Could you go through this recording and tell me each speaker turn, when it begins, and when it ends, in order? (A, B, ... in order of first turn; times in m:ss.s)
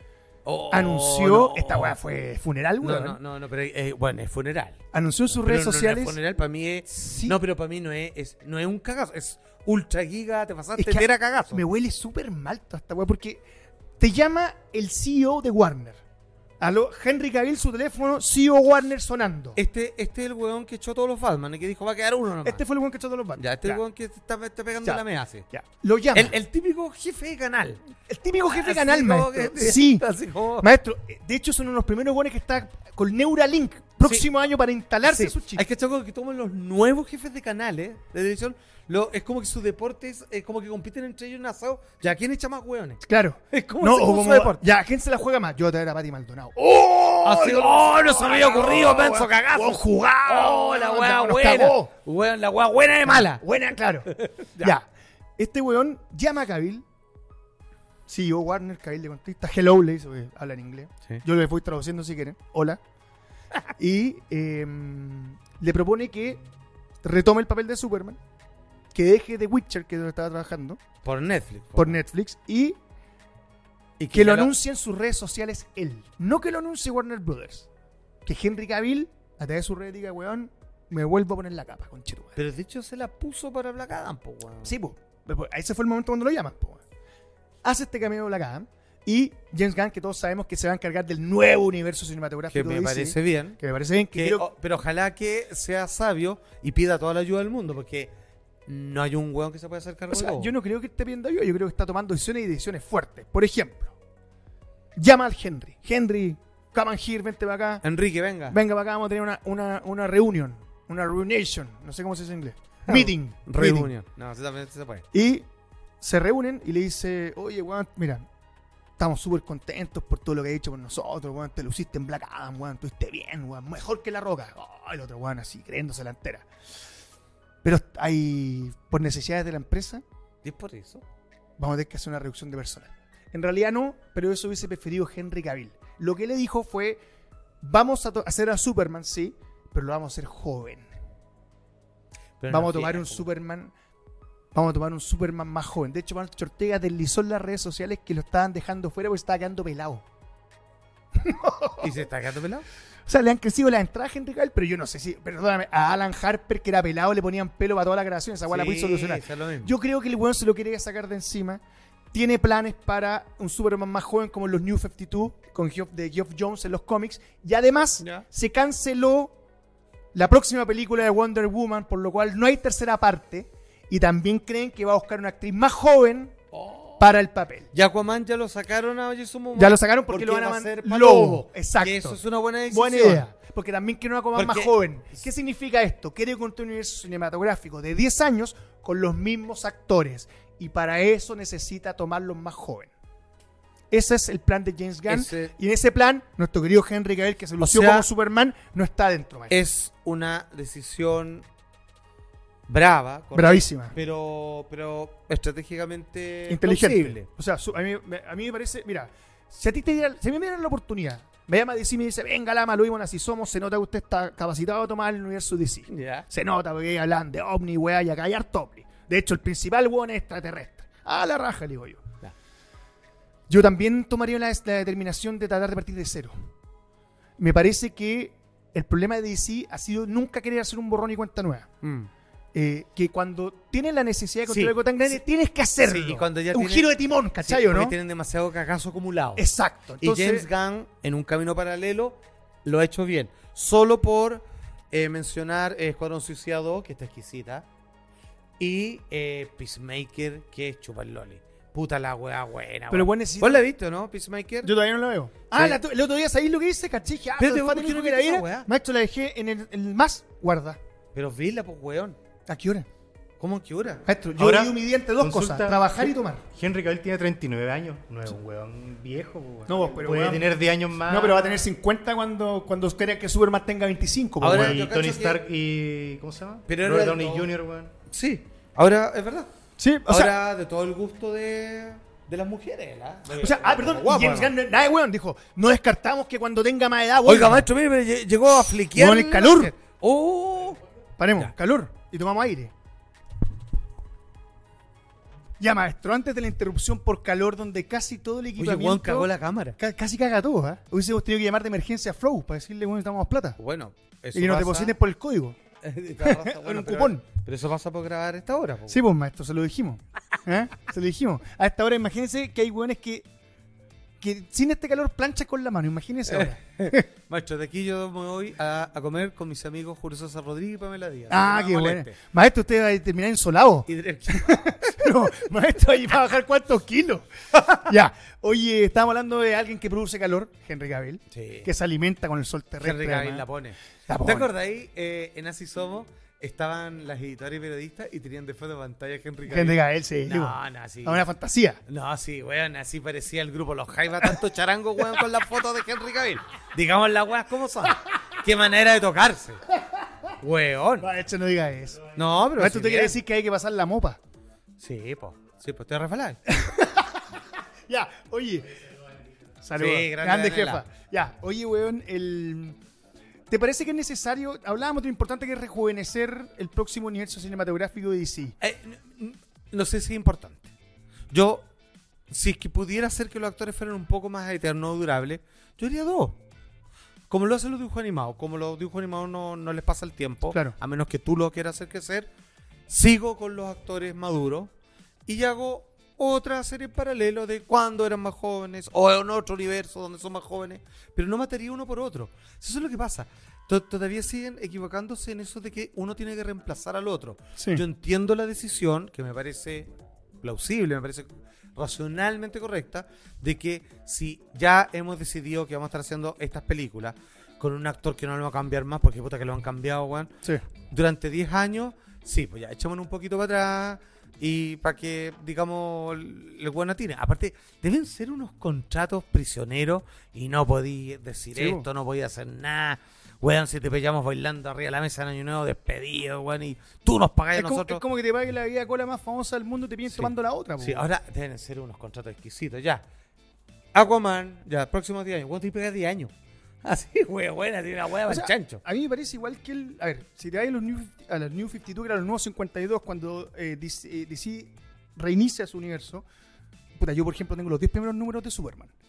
0:00.4-0:02.0 A
0:00.7-0:03.2 B
0:02.8-0:11.6 A
0:04.9-0:06.2 B
0:06.9-0:07.4 B
0:10.8-0:13.4 B
0:14.0-0:16.0 B
0:16.6-0:19.6 B
0:19.6-0:22.6 A
0:22.4-0:23.8 B
0:23.4-0:25.5 A
0:24.8-0:26.4 B
0:26.1-0:27.9 A
0:28.0-0:30.0 B
0:28.5-0:30.7 A
0:30.6-0:35.6 B
0:35.0-0:44.6 A
0:43.0-0:51.9 B
0:47.2-0:53.4 A
0:53.1-0:56.8 B
0:54.1-0:54.8 A
0:58.1-1:02.8 B
1:03.8-1:06.4 B
1:07.0-1:08.2 B
1:08.9-1:10.8 B
1:11.0-1:12.0 A
1:11.8-1:12.8 B
1:14.0-1:14.5 A
1:14.1-1:17.7 B
1:18.2-1:22.4 B
1:22.4-1:24.8 A
1:24.6-1:26.8 B
1:27.6-1:34.5 B
1:32.5-1:33.6 A
1:34.1-1:38.1 A
1:38.7-1:40.5 A
1:40.1-1:43.9 B
1:45.0-1:47.8 B
1:47.8-1:48.6 A
1:48.5-1:53.9 B
1:52.9-1:55.0 A
1:55.1-1:55.4 B
1:56.0-1:58.3 B
1:59.0-2:06.5 B
2:07.6-2:10.0 B
2:10.4-2:11.0 A
2:11.6-2:17.0 B
2:17.6-2:20.9 B
2:22.4-2:23.3 A
2:22.5-2:23.7 B
2:24.5-2:30.0 B
2:31.2-2:31.9 B
2:31.8-2:32.7 A
2:33.1-2:41.6 B
2:38.5-2:39.7 A
2:42.1-2:49.3 B
2:48.0-2:48.2 A
2:50.1-2:56.4 B
2:56.5-2:57.0 A
2:57.0-2:57.7 B
2:57.7-3:03.3 A
2:59.5-3:12.9 B
3:04.4-3:04.7 A
3:13.9-3:19.6 B
3:15.1-3:15.5 A
3:17.6-3:18.1 A
3:19.5-3:21.5 A
3:22.7-3:27.3 A
3:23.3-3:24.0 B
3:26.5-3:42.0 B
3:35.9-3:36.3 A
3:43.5-3:46.3 B
3:47.4-3:51.7 B
3:51.8-3:52.1 A
3:52.5-3:58.0 B
3:54.5-3:54.8 A
3:55.8-3:56.9 A
3:57.4-3:59.5 A
3:59.4-4:00.5 B
4:00.0-4:07.7 A
4:08.6-4:14.7 A
4:12.9-4:13.6 B
4:14.6-4:20.8 B
4:15.5-4:15.8 A
4:17.4-4:18.7 A
4:21.2-4:22.2 A
4:22.5-4:22.9 B
4:23.4-4:24.1 A
4:24.0-4:26.4 B
4:24.4-4:31.6 C
4:29.7-4:30.5 B
4:31.1-4:34.8 B
4:34.4-4:35.4 A
4:34.4-4:37.9 C
4:36.7-4:37.5 A
4:38.1-4:39.5 A
4:39.8-4:40.4 B
4:40.1-4:44.5 A
4:43.3-4:47.7 B
4:47.2-4:50.8 A
4:48.9-4:49.7 B
4:51.2-4:52.7 B
4:55.6-5:03.6 B
4:58.6-4:59.8 A
5:03.6-5:05.0 A
5:04.3-5:05.6 B
5:05.8-5:09.0 A
5:06.2-5:07.2 B
5:08.9-5:13.3 B
5:14.2-5:17.1 B
5:16.3-5:22.2 A
5:21.3-5:33.5 B
5:23.9-5:25.1 A
5:27.5-5:27.9 A
5:31.3-5:31.7 A
5:32.8-5:41.2 A
5:34.1-5:34.5 B
5:39.5-5:41.8 B
5:41.9-5:49.6 A
5:50.4-5:51.1 A
5:51.0-5:52.0 B
5:52.2-5:53.2 A
5:52.6-5:54.2 B
5:54.8-5:56.4 A
5:56.5-5:57.3 B
5:57.9-5:58.8 B
5:59.6-6:02.8 B
5:59.8-6:00.8 A
6:03.5-6:08.6 B
6:08.6-6:10.7 A
6:11.3-6:11.7 A
6:12.3-6:16.4 A
6:17.3-6:22.3 A
6:22.9-6:24.7 A
6:25.3-6:39.9 A
6:40.4-6:50.3 A
6:50.9-7:08.0 A
7:01.6-7:01.9 B
7:07.6-7:11.0 B
7:10.1-7:13.0 A
7:13.9-7:16.3 A
7:16.8-7:18.8 A
7:18.3-7:26.2 B
7:27.0-7:28.9 B